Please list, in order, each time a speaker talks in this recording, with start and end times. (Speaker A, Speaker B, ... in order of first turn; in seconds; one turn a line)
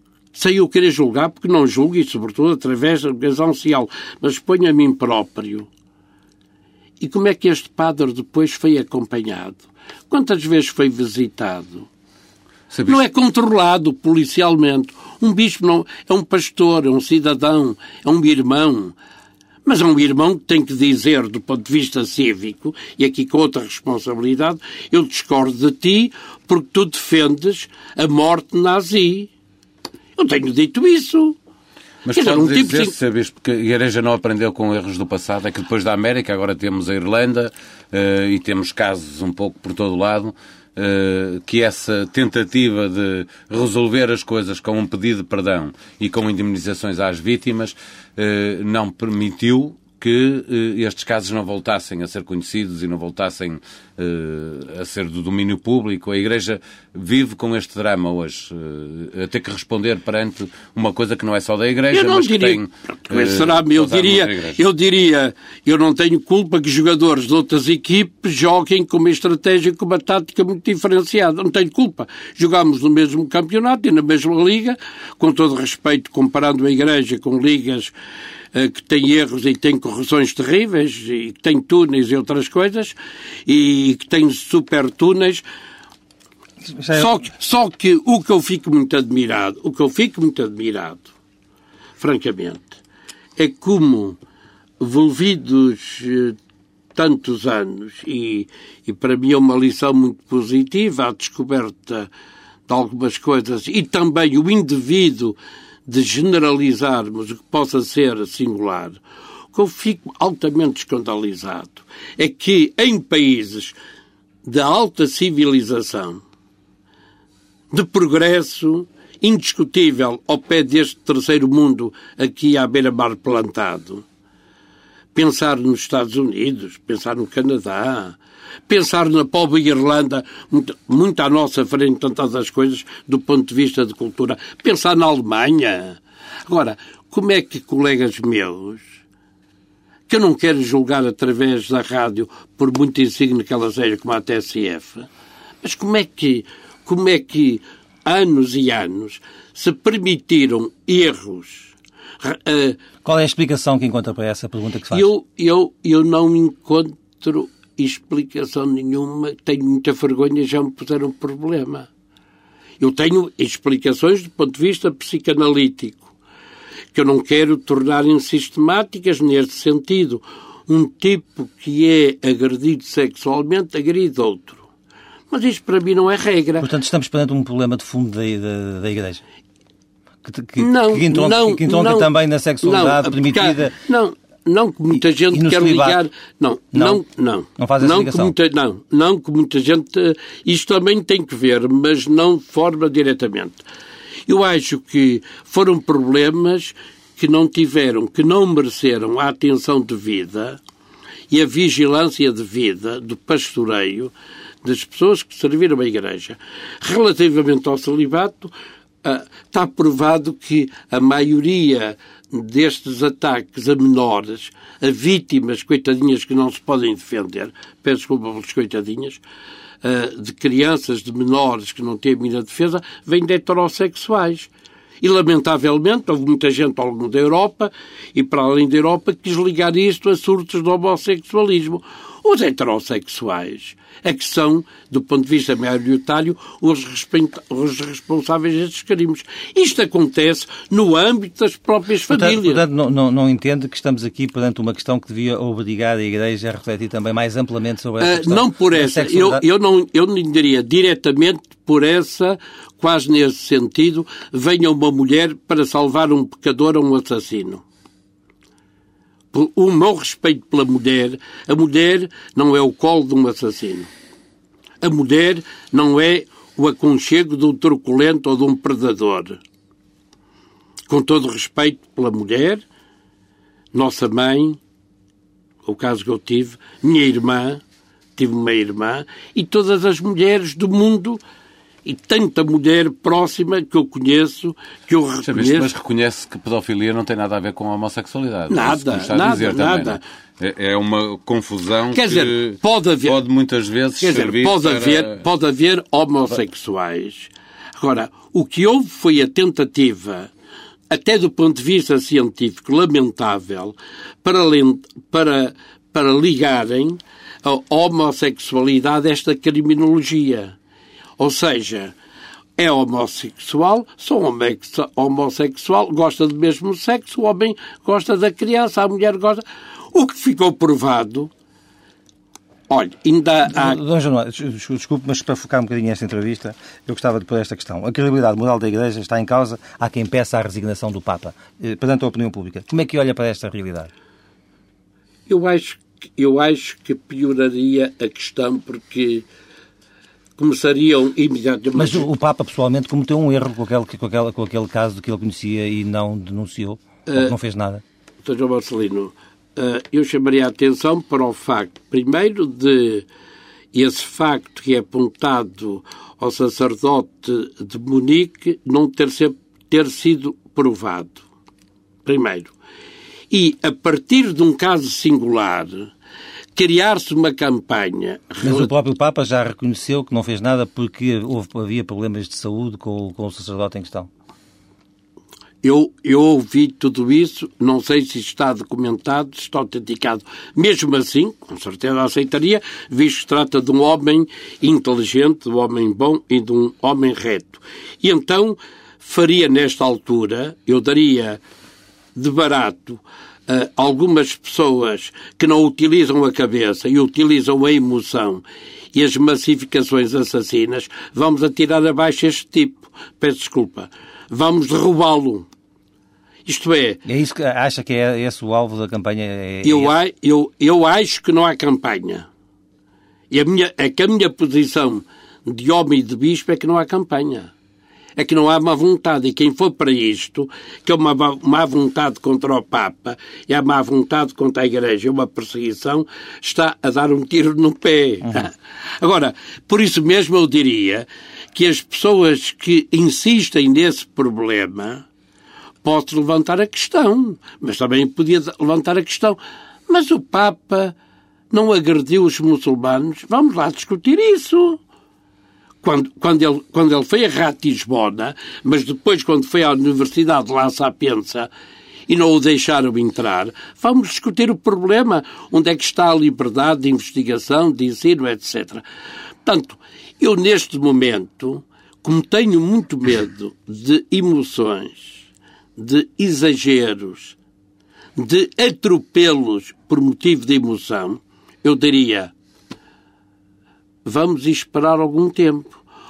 Speaker A: 0.3-5.7
Speaker A: 7.0-11.9
Speaker B: 12.7-13.0
Speaker A: 12.9-18.9
Speaker A: 19.6-29.3
Speaker A: 30.2-31.4
Speaker B: 32.0-64.6
Speaker A: 32.1-32.9
Speaker A: 61.9-77.9
Speaker A: 78.5-85.4
Speaker C: 86.7-87.2
Speaker A: 86.9-91.1
Speaker A: 92.0-92.8
Speaker A: 93.4-94.2
Speaker A: 94.8-96.4
Speaker A: 97.0-102.1
Speaker A: 102.7-105.4
Speaker A: 105.9-109.0
Speaker A: 109.5-113.8
Speaker A: 114.5-116.2
Speaker A: 117.7-124.0
Speaker A: 125.2-138.9
Speaker A: 140.1-145.1
Speaker A: 145.6-152.8
Speaker C: 153.0-155.1
Speaker A: 154.9-161.9
Speaker A: 162.8-166.1
Speaker A: 166.9-174.7
Speaker A: 175.3-176.7
Speaker C: 176.6-179.2
Speaker C: 180.2-183.7
Speaker A: 180.6-182.1
Speaker A: 182.6-193.6
Speaker C: 185.3-186.0
Speaker C: 186.7-187.0
Speaker C: 187.6-188.3
Speaker A: 194.3-200.6
Speaker A: 201.3-204.1
Speaker A: 204.6-219.2
Speaker A: 219.8-224.5
Speaker A: 225.0-242.6
Speaker C: 242.1-249.4
Speaker A: 248.0-257.6
Speaker A: 259.3-263.9
Speaker A: 264.8-269.4
Speaker A: 270.9-272.6
Speaker A: 273.7-274.6
Speaker A: 275.6-277.6
Speaker A: 278.2-281.2
Speaker A: 281.9-285.7
Speaker B: 285.3-295.2
Speaker A: 288.5-290.0
Speaker A: 291.9-293.2
Speaker A: 294.0-300.3
Speaker A: 300.9-310.6
Speaker A: 311.2-311.9
Speaker A: 312.6-321.3
Speaker A: 322.7-323.8
Speaker C: 323.5-333.9
Speaker A: 335.3-339.3
Speaker A: 340.4-342.1
Speaker C: 341.8-347.8
Speaker A: 347.1-347.3
Speaker A: 348.2-353.1
Speaker A: 353.7-361.2
Speaker A: 362.1-362.5
Speaker A: 363.3-365.9
Speaker A: 366.6-368.7
Speaker C: 368.4-374.1
Speaker A: 375.6-391.4
Speaker A: 392.2-405.5
Speaker A: 406.5-407.0
Speaker C: 407.1-409.9
Speaker A: 409.6-412.3
Speaker A: 413.3-417.5
Speaker A: 418.2-435.1
Speaker A: 435.8-440.9
Speaker A: 441.5-444.8
Speaker A: 445.8-451.5
Speaker A: 452.1-458.8
Speaker A: 459.4-465.2
Speaker A: 465.8-467.4
Speaker A: 468.2-472.3
Speaker A: 474.1-475.8